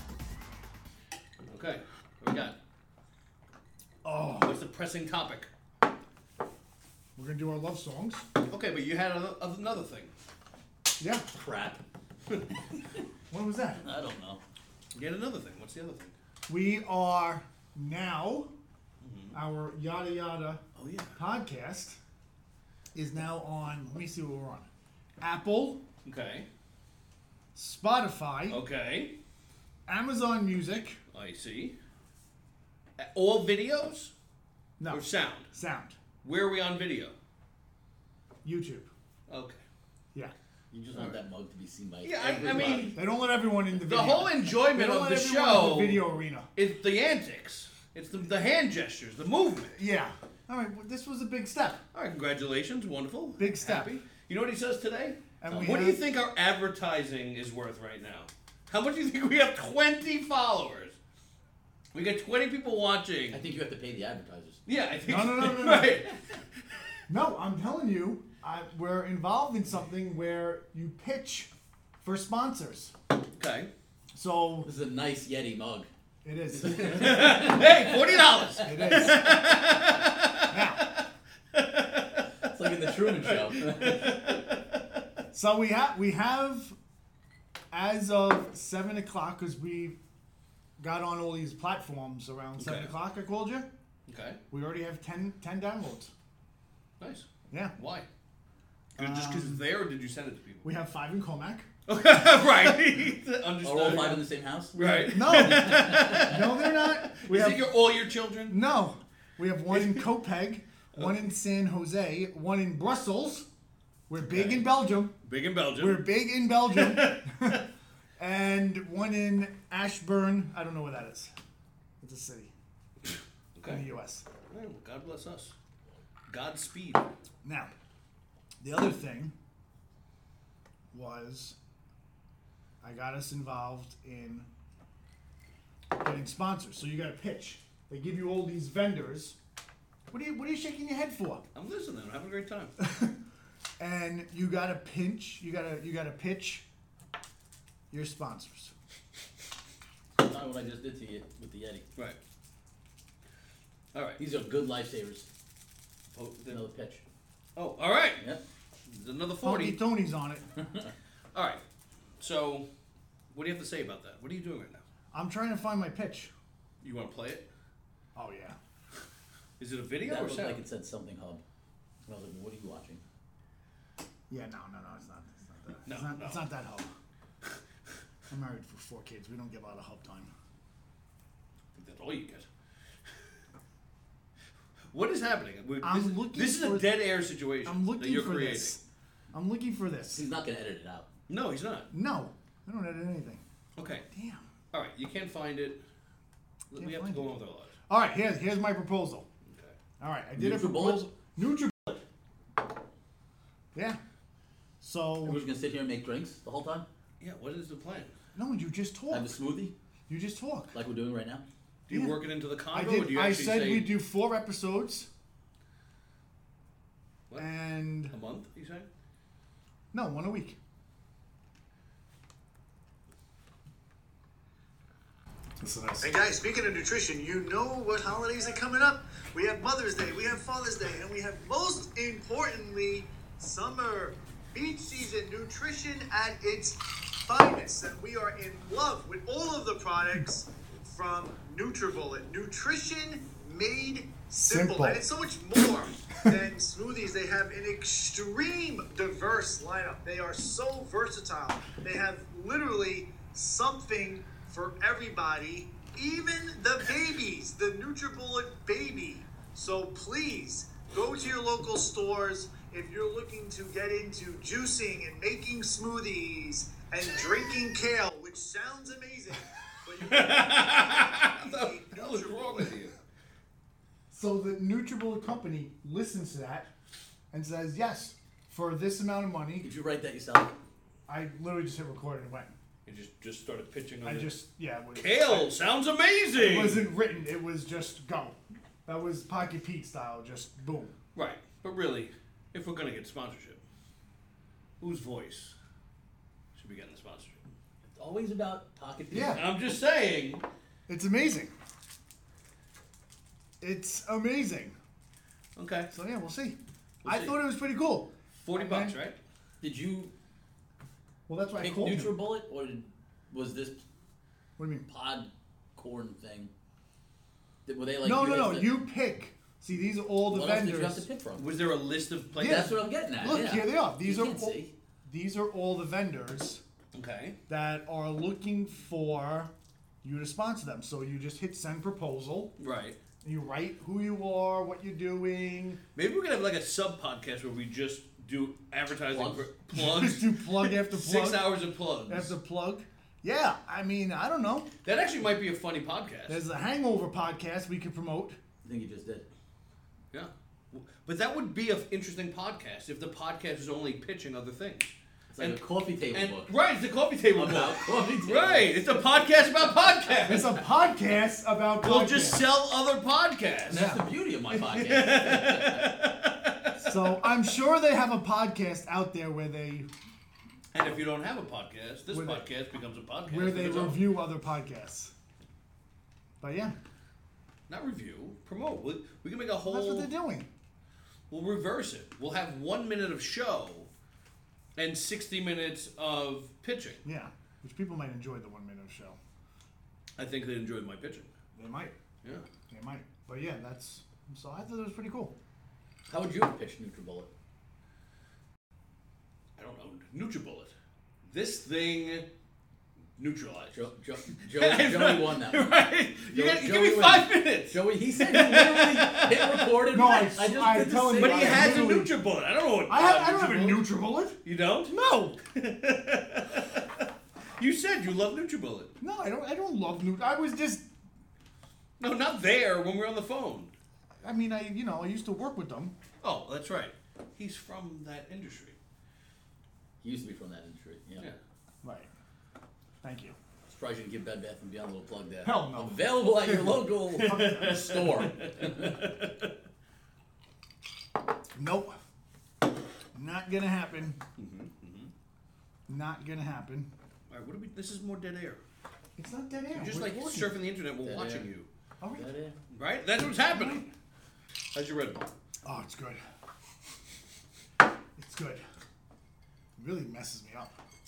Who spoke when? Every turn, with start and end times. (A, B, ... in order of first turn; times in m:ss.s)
0:01.5-0:02.6 A
0:04.0-0:04.6 B
0:04.4-0:05.5 A
0:07.2-0:08.3 B
0:08.5-0:10.1 A
0:11.0-0:11.3 B
0:11.3-0:11.8 C
0:13.3-0:13.9 B
0:13.8-0:14.4 C
0:14.9-0:16.1 A
0:16.5-0:18.5 B
0:19.0-0:19.4 A
0:19.3-0:20.6 B
0:20.8-0:21.0 C
0:21.2-0:22.0 B
0:22.9-0:24.7 B
0:25.2-0:25.8 B
0:26.0-0:26.5 A
0:27.6-0:28.6 B
0:28.5-0:29.2 A
0:29.9-0:31.0 B
0:31.1-0:31.8 A
0:33.0-0:34.1 A
0:34.8-0:36.0 B
0:34.9-0:35.5 A
0:36.2-0:37.2 A
0:38.4-0:38.9 B
0:39.3-0:39.6 A
0:40.7-0:43.0 C
0:40.9-0:41.2 A
0:42.0-0:43.0 A
0:42.9-0:46.5 B
0:43.8-0:49.8 A
0:49.7-0:51.8 B
0:51.9-1:01.0 A
0:53.4-0:54.0 B
0:55.4-0:56.0 B
1:01.9-1:03.4 A
1:03.3-1:04.6 C
1:04.7-1:06.4 A
1:05.1-1:06.0 B
1:07.1-1:12.9 B
1:13.4-1:13.7 A
1:14.1-1:14.7 B
1:14.6-1:15.9 C
1:16.2-1:17.5 B
1:16.5-1:19.0 C
1:16.8-1:25.0 A
1:18.6-1:19.6 B
1:20.5-1:20.9 B
1:22.5-1:24.1 C
1:25.3-1:26.8 B
1:27.7-1:30.0 B
1:30.8-1:33.7 B
1:32.6-1:32.9 A
1:34.1-1:34.4 A
1:34.5-1:36.1 B
1:37.0-1:38.1 A
1:37.5-1:37.8 B
1:39.0-1:40.7 A
1:39.0-1:39.6 B
1:40.6-1:41.7 B
1:41.9-1:48.6 A
1:43.6-1:46.2 C
1:44.8-1:47.7 B
1:48.5-1:53.5 B
1:49.7-1:50.0 A
1:54.1-1:55.2 B
1:54.3-1:54.6 A
1:55.2-1:56.2 A
1:55.8-1:57.6 B
1:56.7-1:57.6 A
1:58.2-2:01.3 B
2:02.0-2:02.5 B
2:03.0-2:03.9 A
2:03.7-2:04.3 B
2:04.5-2:05.6 A
2:06.3-2:07.0 A
2:07.4-2:07.7 B
2:08.6-2:09.3 B
2:10.9-2:11.6 B
2:12.8-2:14.5 B
2:16.0-2:19.4 B
2:20.1-2:21.4 B
2:21.6-2:22.7 A
2:22.8-2:23.2 B
2:23.8-2:26.6 B
2:27.9-2:28.7 B
2:30.2-2:31.8 C
2:33.9-2:34.2 A
2:34.2-2:35.3 C
2:36.1-2:36.6 A
2:36.5-2:37.0 C
2:37.6-2:38.2 A
2:38.9-2:39.8 A
2:39.4-2:40.5 B
2:41.3-2:41.6 A
2:42.2-2:42.7 A
2:43.3-2:44.8 A
2:45.1-2:46.3 B
2:46.8-2:47.5 A
2:48.2-2:48.6 B
2:49.6-2:50.6 A
2:50.0-2:51.4 C
2:52.1-2:53.0 C
2:54.3-2:56.9 B
2:55.9-2:56.4 A
2:58.3-3:00.3 B
3:01.8-3:02.5 A
3:04.9-3:08.8 A
3:05.8-3:07.1 B
3:07.6-3:10.3 B
3:10.1-3:11.1 C
3:11.3-3:11.9 A
3:11.9-3:13.4 B
3:13.8-3:14.0 A
3:14.1-3:14.5 B
3:14.7-3:15.8 A
3:16.7-3:17.7 A
3:16.7-3:19.3 B
3:19.5-3:19.8 A
3:20.0-3:22.0 B
3:20.4-3:21.1 C
3:23.7-3:24.0 B
3:24.8-3:25.5 B
3:25.2-3:26.9 C
3:27.2-3:28.1 A
3:28.4-3:29.4 B
3:29.1-3:29.7 C
3:30.1-3:30.8 B
3:30.7-3:31.4 C
3:31.9-3:34.0 A
3:31.9-3:35.1 B
3:37.4-3:38.2 B
3:38.1-3:38.9 A
3:39.9-3:40.6 B
3:45.6-3:46.2 B
3:46.1-4:21.0 D
4:04.4-4:05.0 B
4:21.0-4:22.8 B
4:21.6-4:22.4 D
4:22.9-4:29.1 D
4:29.0-4:29.5 B
4:30.0-4:31.2 B
4:30.0-4:33.0 A
4:31.0-4:32.2 D
4:32.3-4:32.7 B
4:34.1-4:36.7 B
4:37.3-4:39.7 B
4:39.6-4:40.6 C
4:41.1-4:42.6 B
4:42.9-4:44.4 A
4:44.0-4:45.5 B
4:44.9-4:46.9 A
4:46.3-4:50.9 B
4:51.2-4:53.6 A
4:54.8-4:55.6 A
4:56.6-4:57.4 A
4:57.9-4:59.4 C
4:59.1-4:59.4 B
4:59.3-5:00.4 A
5:00.9-5:01.5 B
5:03.6-5:04.8 B
5:05.6-5:05.9 A
5:05.9-5:09.0 B
5:07.0-5:07.5 A
5:08.4-5:09.2 A
5:09.6-5:10.1 C
5:11.3-5:12.2 B
5:11.6-5:13.8 C
5:14.6-5:14.9 B
5:14.9-5:16.5 C
5:17.7-5:18.7 C
5:18.0-5:21.1 B
5:20.3-5:21.5 C
5:21.4-5:22.8 A
5:22.4-5:24.7 C
5:22.4-5:26.6 B
5:26.9-5:27.4 A
5:27.5-5:29.5 B
5:30.0-5:32.5 B
5:32.6-5:33.0 A
5:33.2-5:35.8 B
5:36.0-5:42.4 A
5:39.1-5:39.5 C
5:39.7-5:44.7 B
5:44.8-5:46.4 A
5:46.3-5:48.4 B
5:48.6-5:49.3 C
5:50.1-6:00.6 A
5:55.3-5:56.5 C
5:57.3-5:59.0 C
6:00.1-6:00.4 C
6:00.3-6:02.5 B
6:01.8-6:03.9 A
6:03.7-6:04.0 B
6:03.7-6:06.0 C
6:04.5-6:07.2 A
6:06.8-6:09.9 B
6:10.7-6:14.2 A
6:12.1-6:12.5 B
6:13.3-6:15.1 B
6:16.4-6:16.8 B
6:17.7-6:20.1 A
6:19.6-6:20.5 B
6:21.3-6:23.9 A
6:24.8-6:27.0 A
6:27.0-6:29.2 B
6:30.2-6:31.3 A
6:31.6-6:32.0 B
6:32.6-6:35.4 B
6:36.1-6:37.3 C
6:39.6-6:40.7 A
6:41.2-6:42.3 A
6:43.2-6:49.7 A
6:43.7-6:51.8 C
6:49.9-6:52.2 B
6:51.2-6:53.9 A
6:52.9-6:54.4 B
6:54.4-6:56.9 A
6:55.0-6:55.4 B
6:57.6-6:58.9 A
6:59.0-7:00.9 B
7:02.0-7:03.8 A
7:04.2-7:06.0 B
7:06.2-7:08.8 A
7:10.0-7:11.3 C
7:11.8-7:12.1 B
7:13.0-7:13.4 B
7:13.7-7:19.1 C
7:15.4-7:18.1 B
7:17.1-7:19.5 A
7:21.5-7:22.0 B
7:23.2-7:24.2 B
7:24.4-7:25.1 A
7:25.9-7:26.9 B
7:27.3-7:28.6 A
7:29.2-7:30.6 B
7:29.7-7:31.7 A
7:31.0-7:31.5 C
7:32.0-7:32.3 B
7:32.2-7:32.6 C
7:32.7-7:33.9 A
7:33.5-7:33.9 B
7:34.7-7:35.3 A
7:35.6-7:36.2 B
7:38.2-7:38.6 B
7:39.8-7:40.8 B